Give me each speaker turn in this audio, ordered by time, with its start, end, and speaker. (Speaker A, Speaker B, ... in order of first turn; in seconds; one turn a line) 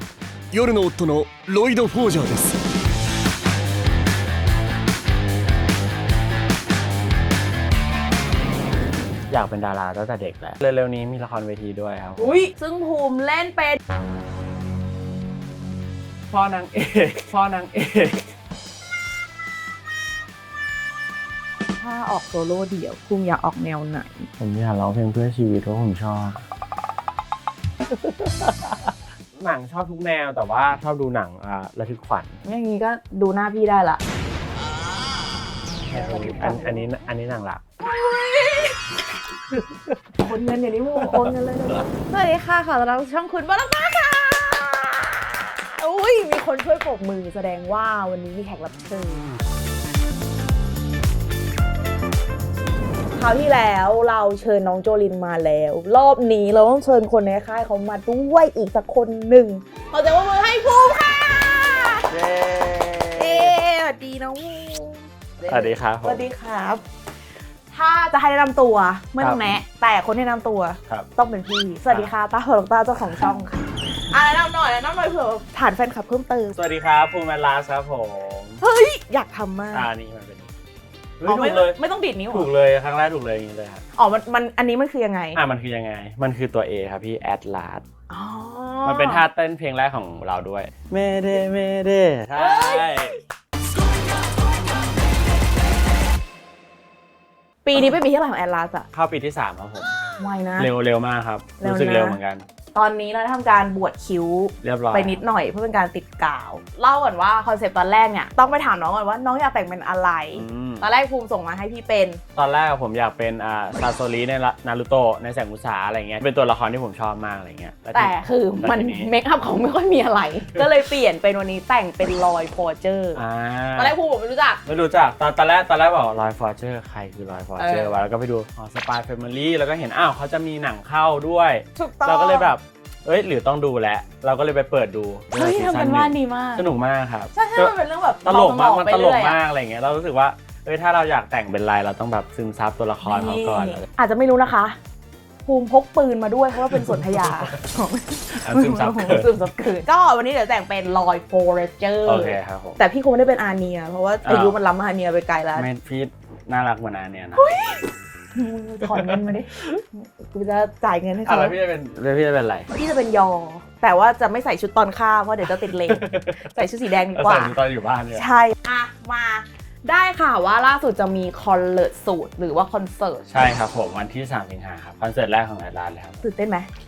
Speaker A: 0.5-2.6
Speaker B: 9.3-12.3
Speaker C: 12.2-13.8
Speaker B: 16.3-18.3
Speaker C: 21.8-24.3
Speaker B: 24.4-26.4
Speaker B: 27.9-32.4
Speaker C: 32.4-34.0
Speaker B: 35.9-37.6
Speaker C: 35.9-36.8
Speaker C: 37.8-38.8
Speaker B: 39.5-40.0
Speaker C: 40.2-49.3
Speaker B: 41.0-41.8
Speaker C: 53.1-62.1
Speaker B: 62.1-63.5
Speaker C: 63.1-66.8
Speaker B: 65.5-66.2
Speaker C: 67.7-76.6
Speaker B: 69.2-69.6
Speaker B: 76.5-78.6
Speaker C: 78.6-79.9
Speaker B: 79.7-80.5
Speaker B: 81.2-81.8
Speaker C: 81.2-82.5
Speaker B: 82.3-83.8
Speaker C: 84.0-85.4
Speaker B: 85.3-87.8
Speaker C: 88.1-89.2
Speaker B: 88.8-93.2
Speaker C: 92.3-93.2
Speaker C: 97.6-98.9
Speaker B: 98.9-100.0
Speaker C: 100.2-100.7
Speaker B: 100.6-102.5
Speaker C: 101.6-102.2
Speaker C: 102.7-112.2
Speaker B: 104.6-105.2
Speaker B: 110.3-110.9
Speaker B: 112.3-119.1
Speaker C: 117.9-123.2
Speaker B: 123.1-124.0
Speaker C: 123.8-124.6
Speaker B: 124.7-143.8
Speaker C: 127.6-128.0
Speaker C: 131.7-132.5
Speaker C: 135.3-136.7
Speaker C: 137.3-139.4
Speaker C: 143.0-144.8
Speaker C: 145.4-155.7
Speaker B: 146.7-147.4
Speaker B: 148.4-149.3
Speaker B: 152.0-152.8
Speaker B: 154.2-154.6
Speaker B: 155.5-157.5
Speaker C: 157.3-161.5
Speaker B: 158.8-159.8
Speaker B: 161.2-162.7
Speaker C: 162.7-167.6
Speaker B: 165.6-166.5
Speaker B: 167.1-168.2
Speaker C: 168.1-173.3
Speaker B: 173.3-176.2
Speaker C: 176.2-176.7